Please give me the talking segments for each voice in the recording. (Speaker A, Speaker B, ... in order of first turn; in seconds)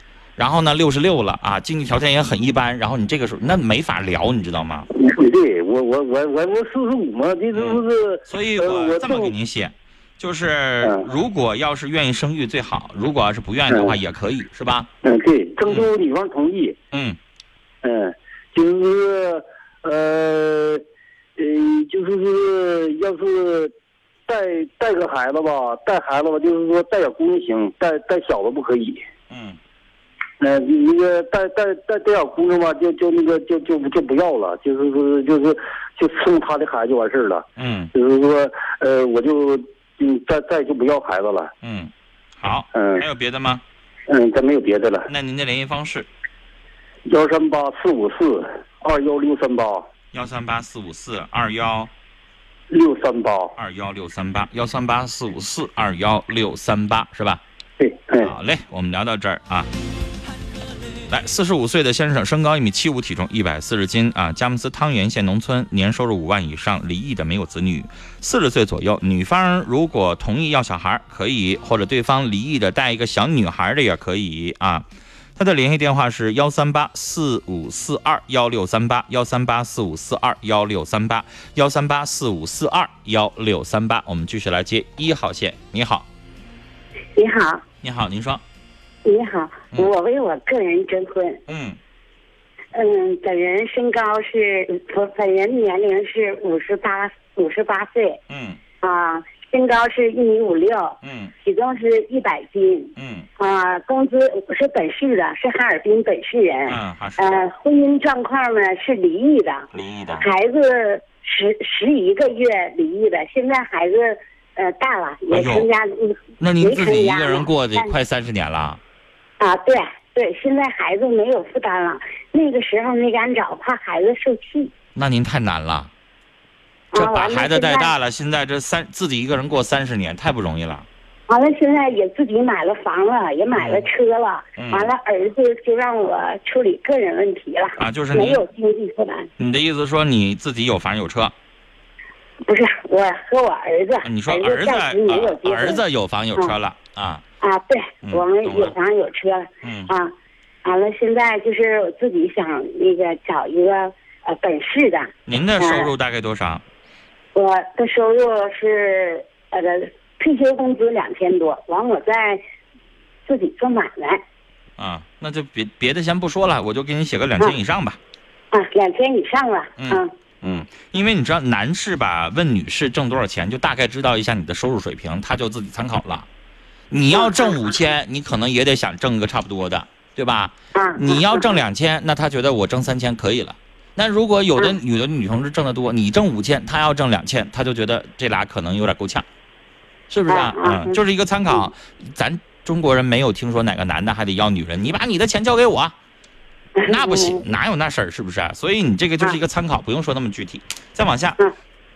Speaker A: 0.4-4.9, 7.5-14.9, 16.9-17.2, 29.3-29.6, 37.6-37.9, 41.6-43.6, 45.1-46.1, 50.1-51.9, 53.6-57.4, 58.2-59.7, 61.1-86.0, 87.8-88.4, 91.5-91.8, 98.3-98.6, 101.0-101.3, 103.0-103.3, 106.7-107.4, 109.7-110.2, 115.3-115.7, 116.4-118.8, 124.9-125.9, 126.9-130.8, 133.5-133.9, 134.6-134.9, 137.8-138.4, 139.4-141.3, 144.0-147.2, 148.0-148.8, 149.6-149.9, 155.3-156.6, 164.8-168.0, 169.8-176.2, 176.9-189.2, 190.1-195.9, 196.9-201.4
Speaker B: 5.0-9.3, 15.0-16.8, 17.8-20.8, 21.4-23.7, 24.3-29.0, 30.4-41.5, 42.7-43.0, 44.1-45.1, 47.1-49.9, 52.7-53.5, 57.8-58.3
Speaker C: 87.2-87.6, 89.0-91.4, 92.7-98.2, 98.8-117.9, 119.4-124.7, 126.9-127.9, 131.3-139.3, 142.4-145.8, 147.4-150.1, 150.6-155.9, 157.3-162.4, 163.2-164.2, 168.5-170.1, 177.1-177.7, 180.7-181.6, 190.3-191.0, 196.8-197.4